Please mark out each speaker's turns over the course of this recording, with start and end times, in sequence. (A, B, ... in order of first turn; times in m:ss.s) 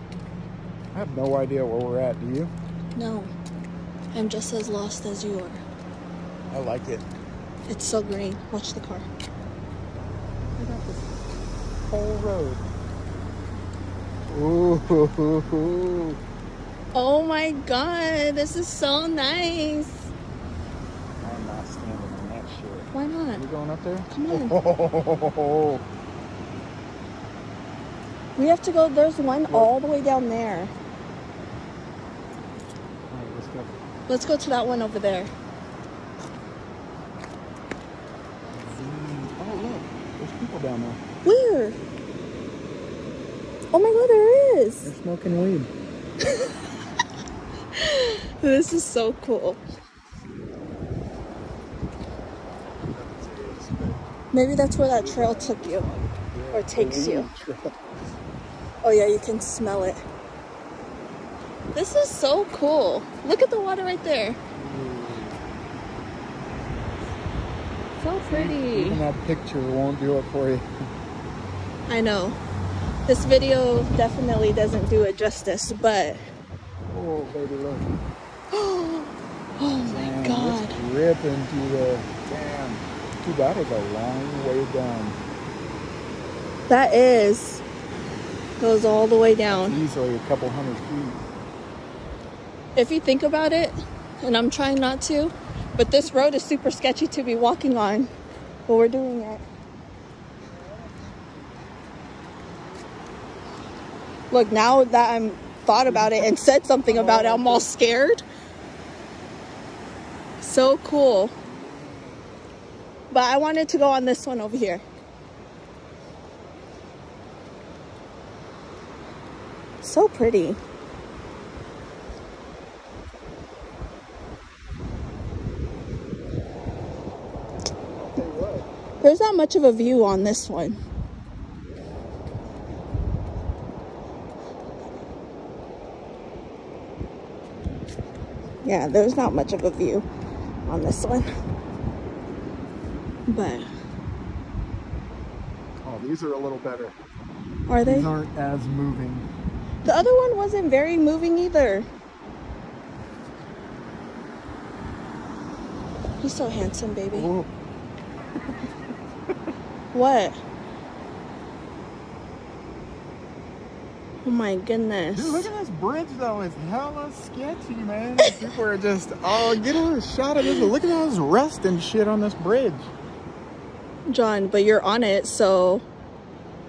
0:00.9-0:02.5 A
0:02.9-0:03.3 B
0:04.1-0:05.6 B
0:06.5-0:07.0 A
0:07.7-0:09.0 B
0:10.6-0:11.1 A
0:11.9-0:12.6 A
0:14.3-0:16.2 A
0:16.9-0:20.1 B
0:21.2-0:25.8 A
0:22.9-0:23.4 B
0:24.1-0:24.6 B
0:28.4-0:30.7 B
0:29.5-0:29.7 A
0:33.1-0:33.8 A
0:34.1-0:35.3 B
0:38.5-0:41.0 A
0:41.2-0:41.8 B
0:43.7-0:44.9 B
0:44.8-0:45.7 A
0:46.2-0:46.7 B
0:47.7-0:49.6 B
0:52.9-0:54.0 A
0:54.3-0:55.9 B
0:54.8-0:57.6 A
0:56.5-0:57.3 B
0:58.8-1:00.0 B
1:01.7-1:04.4 B
1:04.6-1:05.4 A
1:08.0-1:09.0 B
1:08.3-1:10.6 A
1:11.9-1:12.4 B
1:13.1-1:16.2 B
1:16.9-1:17.9 A
1:18.5-1:20.8 B
1:19.8-1:25.2 A
1:26.7-1:27.6 B
1:28.6-1:29.8 B
1:29.5-1:31.2 A
1:32.8-1:38.1 B
1:38.7-1:39.4 B
1:44.3-1:48.2 B
1:45.8-1:47.7 A
1:50.4-1:51.3 B
1:51.7-1:52.0 A
1:53.1-1:54.8 B
1:59.8-2:00.6 B
2:08.0-2:08.7 A
2:09.0-2:10.8 B
2:18.6-2:20.0 B
2:20.6-2:21.3 B
2:23.3-2:23.6 B
2:25.8-2:26.9 A
2:27.7-2:28.1 B
2:27.8-2:29.3 A
2:29.8-2:31.8 B
2:36.2-2:37.3 B
2:37.1-2:37.5 A
2:39.9-2:40.4 B
2:44.2-2:45.5 B
2:45.1-2:52.9 A
2:50.4-2:50.7 B
2:54.1-2:55.8 B